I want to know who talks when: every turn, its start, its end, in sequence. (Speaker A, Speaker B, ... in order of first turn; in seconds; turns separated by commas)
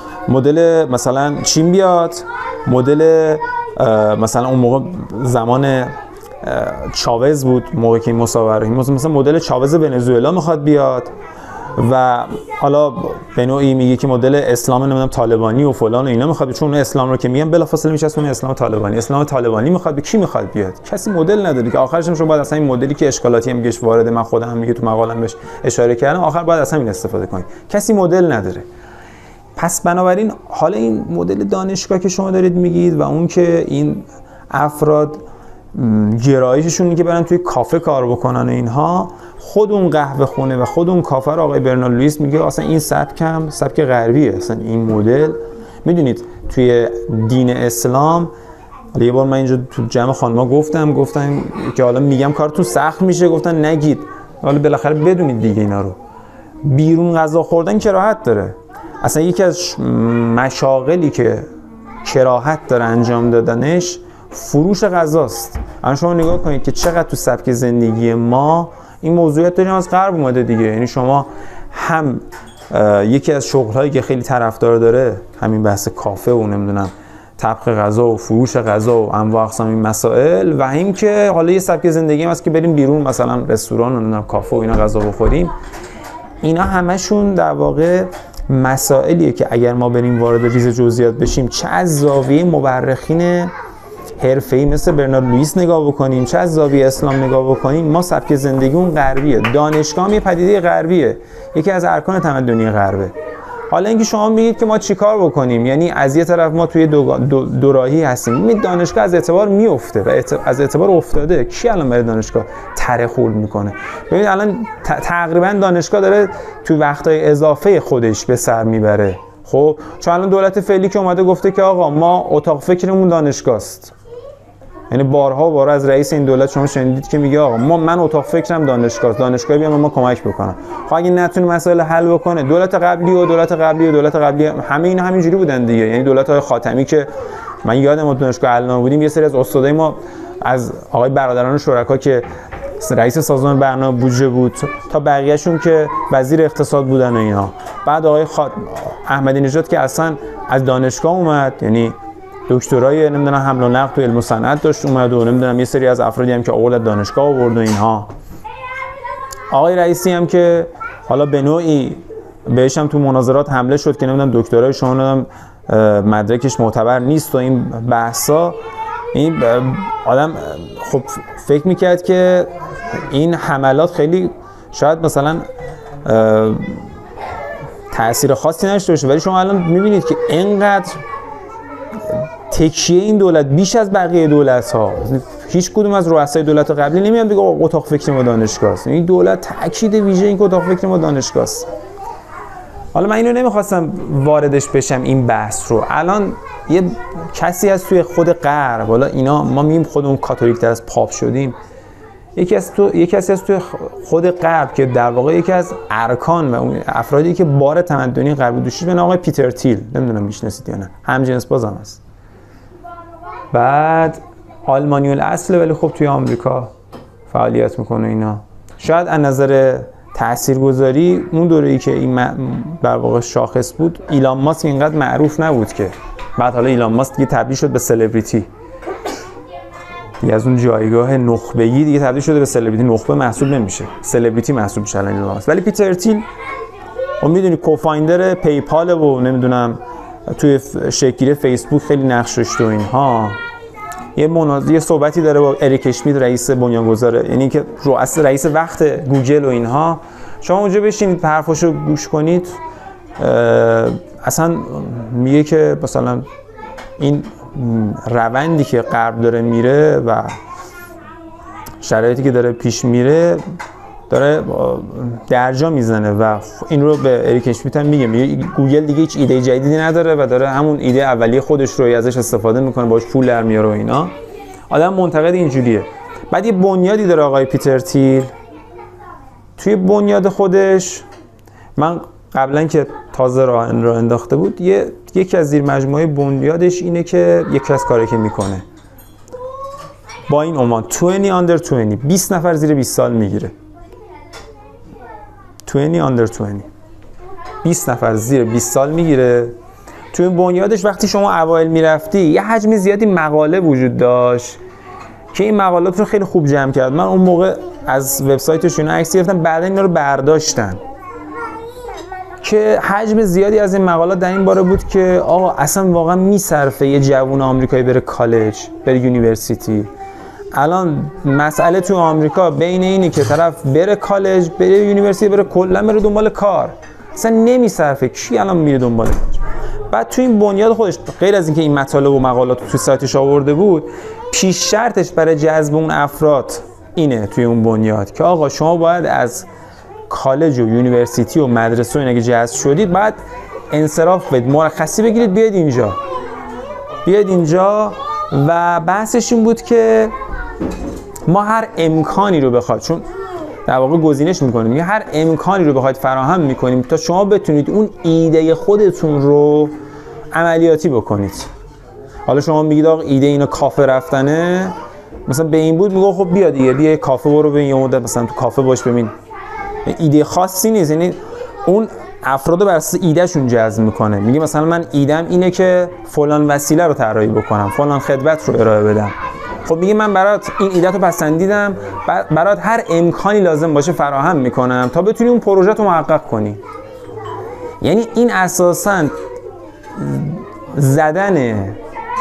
Speaker A: 0.3-11.1, Speaker A: 11.8-28.6, Speaker A: 29.6-48.3, Speaker A: 48.9-56.0, Speaker A: 56.6-61.5, Speaker A: 62.0-85.5, Speaker A: 86.4-93.5, Speaker A: 94.2-103.1, Speaker A: 103.7-123.9, Speaker A: 124.9-137.1, Speaker A: 137.6-142.3, Speaker A: 142.8-151.9, Speaker A: 152.5-158.1, Speaker A: 159.5-168.6, Speaker A: 169.1-172.5, Speaker A: 173.1-175.4, Speaker A: 176.0-176.8, Speaker A: 177.9-181.0, Speaker A: 182.1-191.7, Speaker A: 192.9-201.6, Speaker A: 202.4-212.0, Speaker A: 213.5-216.7, Speaker A: 217.3-228.5, Speaker A: 230.2-236.3, Speaker A: 237.2-243.4, Speaker A: 244.2-252.6, Speaker A: 253.2-256.2, Speaker A: 257.0-260.4, Speaker A: 261.8-263.4, Speaker A: 264.1-274.1, Speaker A: 274.7-278.3, Speaker A: 279.6-281.1, Speaker A: 281.8-288.6, Speaker A: 290.3-293.5, Speaker A: 295.7-296.7, Speaker A: 297.6-299.6, Speaker A: 300.1-304.6, Speaker A: 305.3-310.8, Speaker A: 312.4-319.9, Speaker A: 320.5-339.5, Speaker A: 340.1-343.2, Speaker A: 343.7-346.0, Speaker A: 347.1-350.1, Speaker A: 351.3-353.1, Speaker A: 353.7-359.7, Speaker A: 360.3-361.5, Speaker A: 362.3-364.8, Speaker A: 365.3-369.1, Speaker A: 369.9-379.1, Speaker A: 379.7-386.6, Speaker A: 387.8-389.1, Speaker A: 390.0-391.8